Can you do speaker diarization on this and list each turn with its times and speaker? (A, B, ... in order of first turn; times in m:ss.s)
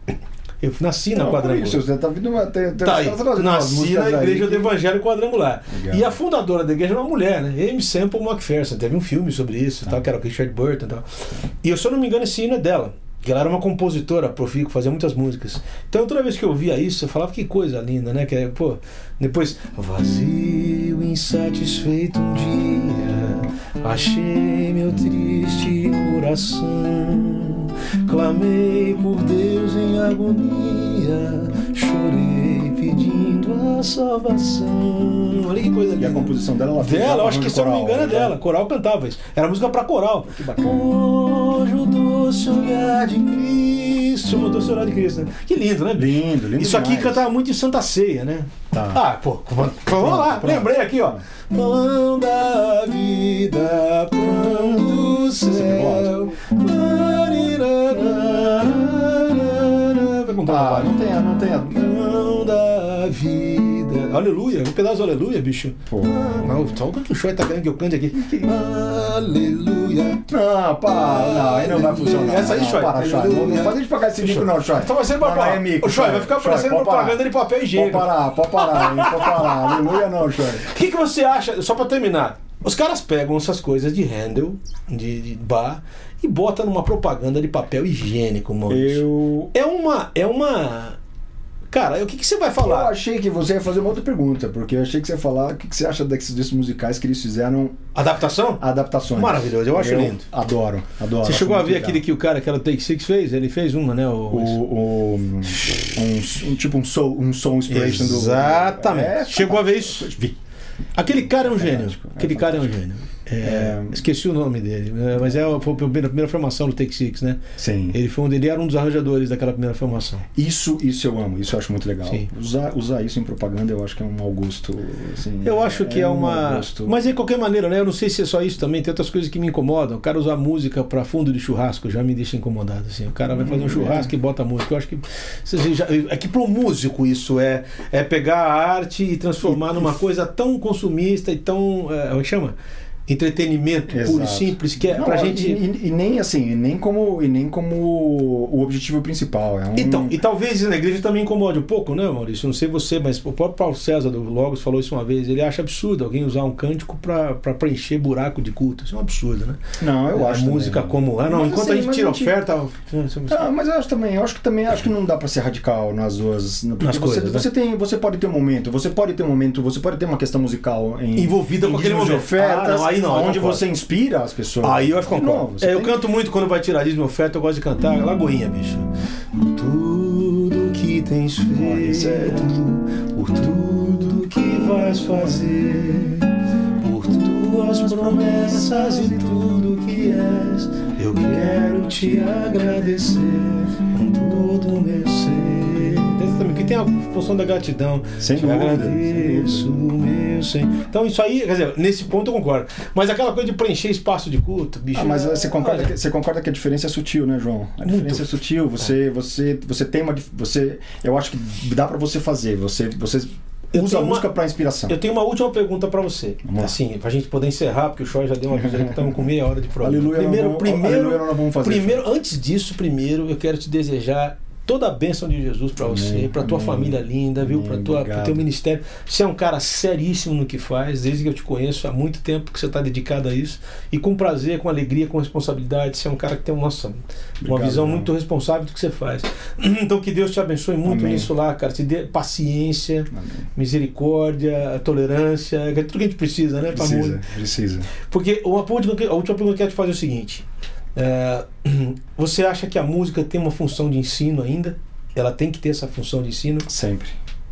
0:00.6-0:01.8 A
0:01.2-0:04.7 B
0:02.8-1:01.0 A
0:05.7-0:06.1 B
0:36.0-0:38.4 B
0:40.3-0:40.9 B
0:46.0-0:47.2 B
0:48.7-0:49.0 B
0:49.6-0:51.2 B
0:54.4-0:56.2 B
1:00.4-1:01.9 B
1:01.7-1:10.3 A
1:05.9-1:06.7 B
1:10.3-1:20.7 B
1:11.2-1:20.0 A
1:20.6-1:31.0 A
1:28.7-1:29.5 B
1:31.7-1:32.9 A
1:32.6-1:37.8 B
1:38.0-1:38.6 A
1:38.6-1:42.0 B
1:39.2-1:40.3 A
1:41.2-1:44.6 A
1:44.3-1:50.4 B
1:45.5-1:45.9 A
1:47.7-1:50.1 A
1:51.0-2:00.2 A
1:51.1-1:52.7 B
1:53.4-1:54.0 B
1:57.6-1:58.0 B
2:00.4-2:07.0 B
2:05.4-2:22.6 A
2:13.3-2:14.1 B
2:19.4-2:19.9 B
2:23.1-2:25.6 A
2:23.9-2:30.2 B
2:29.7-2:43.4 A
2:39.8-2:42.4 B
2:43.3-2:56.0 B
2:46.8-2:47.5 A
2:51.2-2:53.6 A
2:54.6-3:25.9 A
3:01.5-3:02.6 B
3:07.9-3:09.2 B
3:18.2-3:19.7 B
3:24.9-3:35.0 B
3:27.8-3:28.3 A
3:33.7-3:34.3 A
3:34.9-4:07.2 A
3:36.4-3:36.8 B
3:38.6-3:39.2 B
3:39.8-3:42.0 B
3:45.8-3:48.5 B
3:57.4-3:58.1 B
4:00.8-4:01.3 B
4:03.1-4:03.4 B
4:06.7-4:07.9 B
4:08.1-4:16.7 A
4:16.7-4:17.1 B